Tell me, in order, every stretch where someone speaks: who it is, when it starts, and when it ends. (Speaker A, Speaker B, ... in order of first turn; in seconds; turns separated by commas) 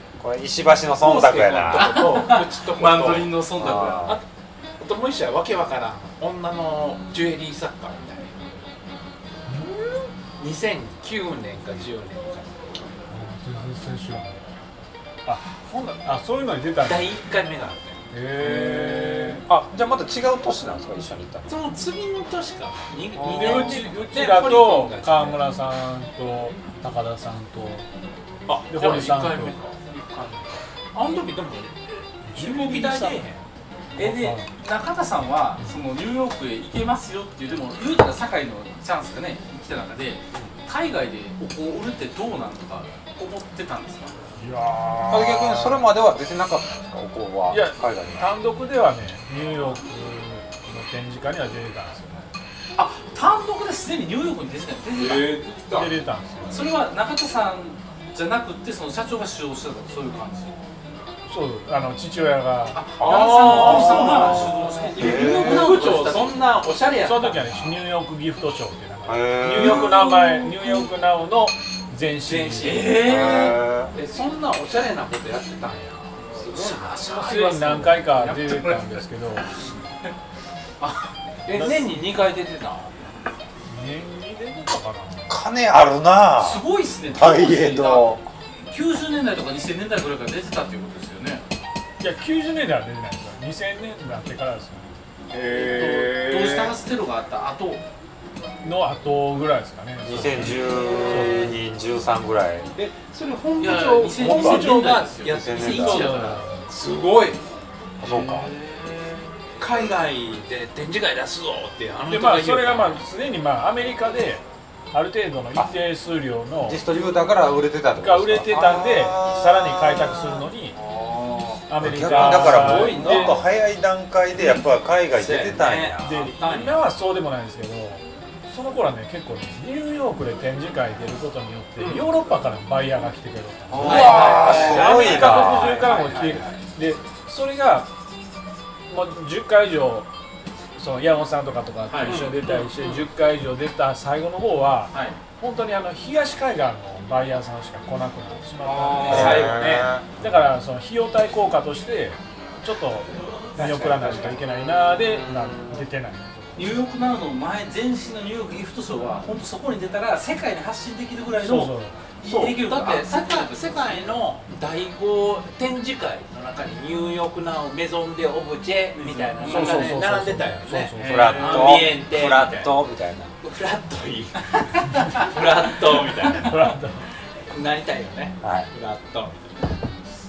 Speaker A: 0.2-2.0, Speaker B: 1.0-4.1, Speaker C: 1.5-3.4, Speaker A: 3.6-4.2, Speaker C: 4.8-8.7, Speaker D: 9.5-10.1, Speaker C: 10.4-12.9, Speaker D: 13.1-14.5, Speaker D: 15.2-17.1, Speaker C: 16.8-18.0, Speaker D: 18.1-19.4, Speaker A: 18.4-21.5, Speaker C: 21.5-25.5, Speaker D: 23.1-27.9, Speaker A: 23.2-23.6, Speaker C: 28.5-33.5, Speaker D: 28.7-29.6, Speaker D: 32.2-33.3, Speaker B: 34.0-44.1, Speaker D: 34.0-34.5, Speaker D: 44.4-45.9, Speaker A: 45.1-48.3, Speaker D: 47.5-52.3, Speaker B: 52.8-55.4, Speaker D: 55.7-56.6, Speaker B: 56.5-60.6, Speaker D: 61.3-64.9, Speaker B: 62.7-66.5, Speaker A: 63.0-65.7, Speaker C: 63.7-64.4, Speaker C: 65.0-67.8, Speaker D: 67.0-72.9, Speaker A: 69.1-69.9, Speaker B: 69.5-70.9, Speaker C: 72.2-73.4, Speaker B: 72.6-73.7, Speaker A: 73.0-73.9, Speaker C: 73.9-77.9, Speaker B: 76.3-80.1, Speaker D: 77.1-79.5, Speaker B: 80.8-81.8, Speaker C: 81.5-83.1, Speaker D: 81.6-82.0, Speaker D: 83.7-85.3, Speaker A: 85.3-88.2, Speaker B: 86.4-91.5, Speaker D: 92.0-96.7, Speaker B: 95.3-97.8, Speaker D: 98.6-101.6, Speaker A: 100.0-102.7, Speaker C: 100.9-101.4, Speaker C: 102.8-107.4, Speaker B: 103.6-106.5, Speaker A: 104.2-106.4, Speaker A: 108.0-108.5, Speaker B: 108.0-109.3, Speaker C: 109.6-113.0, Speaker D: 112.1-116.9, Speaker A: 116.6-120.5, Speaker D: 118.0-120.8, Speaker D: 121.7-123.4, Speaker A: 121.8-126.3, Speaker C: 121.9-123.5, Speaker C: 125.1-126.8, Speaker D: 126.0-137.9, Speaker B: 131.8-132.1, Speaker B: 133.7-135.1, Speaker C: 133.8-136.7, Speaker A: 133.8-135.7, Speaker D: 138.9-140.1, Speaker D: 140.8-156.7, Speaker B: 141.9-142.7, Speaker C: 142.1-143.0, Speaker B: 144.9-145.2, Speaker B: 148.6-149.5, Speaker A: 149.0-150.1, Speaker C: 149.0-150.0, Speaker C: 153.6-154.4, Speaker B: 156.6-164.2, Speaker D: 161.4-161.9, Speaker C: 162.2-172.8, Speaker B: 168.9-170.0, Speaker D: 169.4-171.7, Speaker B: 170.9-171.9, Speaker A: 171.0-173.3, Speaker C: 173.4-176.8, Speaker D: 176.2-177.1, Speaker C: 177.4-179.6, Speaker A: 178.4-178.7